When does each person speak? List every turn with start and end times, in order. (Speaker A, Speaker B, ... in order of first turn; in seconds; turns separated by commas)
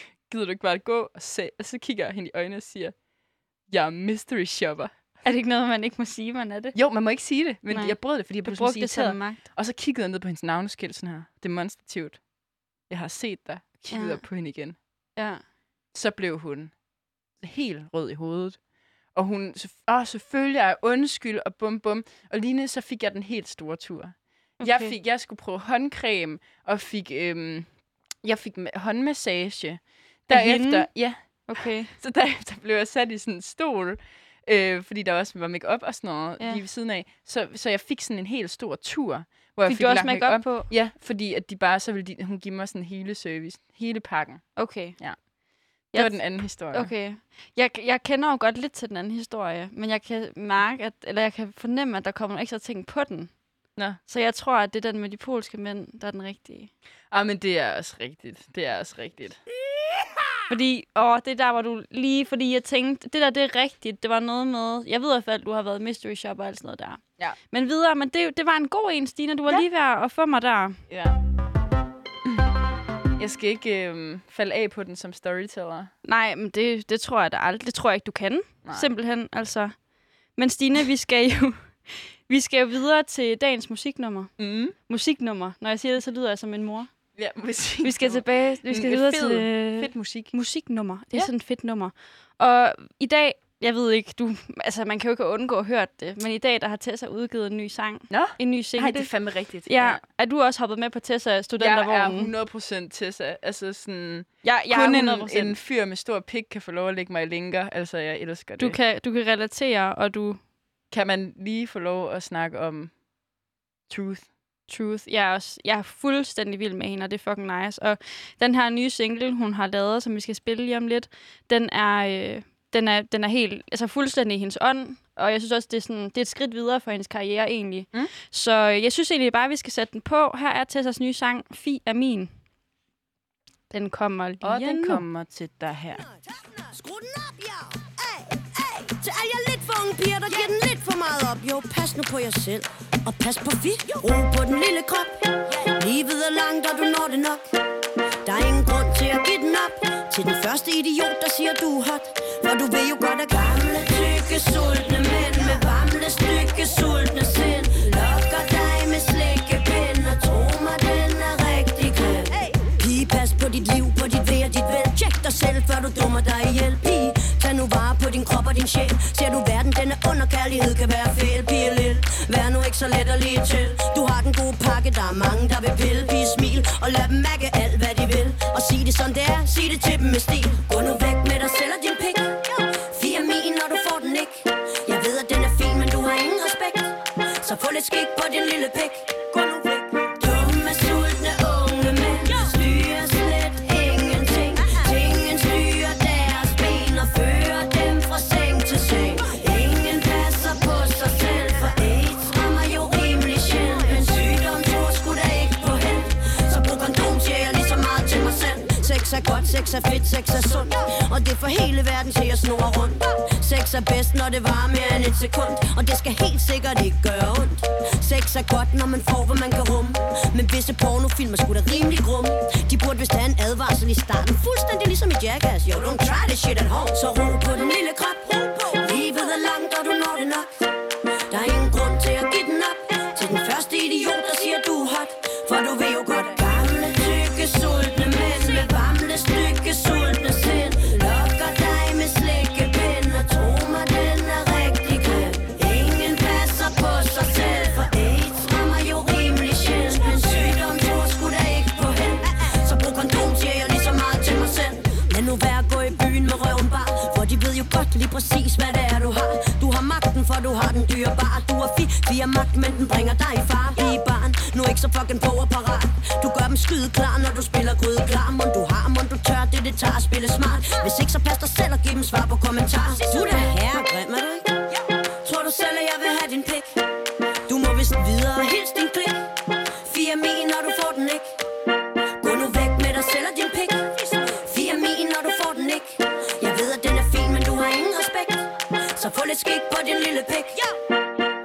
Speaker A: 0.3-3.0, Speaker A: 3.7-4.9, Speaker B: 5.2-6.8, Speaker A: 6.8-12.2, Speaker B: 7.7-9.4, Speaker A: 12.9-14.8, Speaker B: 13.9-14.2, Speaker B: 15.2-15.4, Speaker A: 15.9-16.7, Speaker A: 17.4-18.6, Speaker A: 19.1-27.7, Speaker B: 24.6-24.9, Speaker A: 28.2-45.2, Speaker B: 30.3-30.9, Speaker B: 31.5-31.9, Speaker B: 39.7-40.7, Speaker B: 44.6-45.0, Speaker A: 45.9-46.9, Speaker B: 45.9-53.3, Speaker B: 54.1-56.7, Speaker A: 57.1-59.4, Speaker B: 60.5-70.8, Speaker A: 70.9-71.2, Speaker A: 73.2-75.9, Speaker B: 76.0-79.7, Speaker B: 80.4-84.3, Speaker A: 84.4-84.8, Speaker B: 84.9-86.9, Speaker A: 87.2-90.3, Speaker B: 87.8-99.1, Speaker A: 98.1-100.0, Speaker B: 99.7-102.3, Speaker A: 101.6-108.8, Speaker B: 104.4-105.6, Speaker B: 108.6-110.4, Speaker A: 110.9-112.9, Speaker A: 113.9-114.3, Speaker B: 114.7-132.3, Speaker B: 133.7-135.0, Speaker A: 134.4-136.0, Speaker C: 136.3-147.4, Speaker C: 148.2-230.7, Speaker C: 231.3-274.6, Speaker C: 275.2-276.8, Speaker C: 277.5-279.3, Speaker C: 279.8-281.4, Speaker C: 282.2-290.7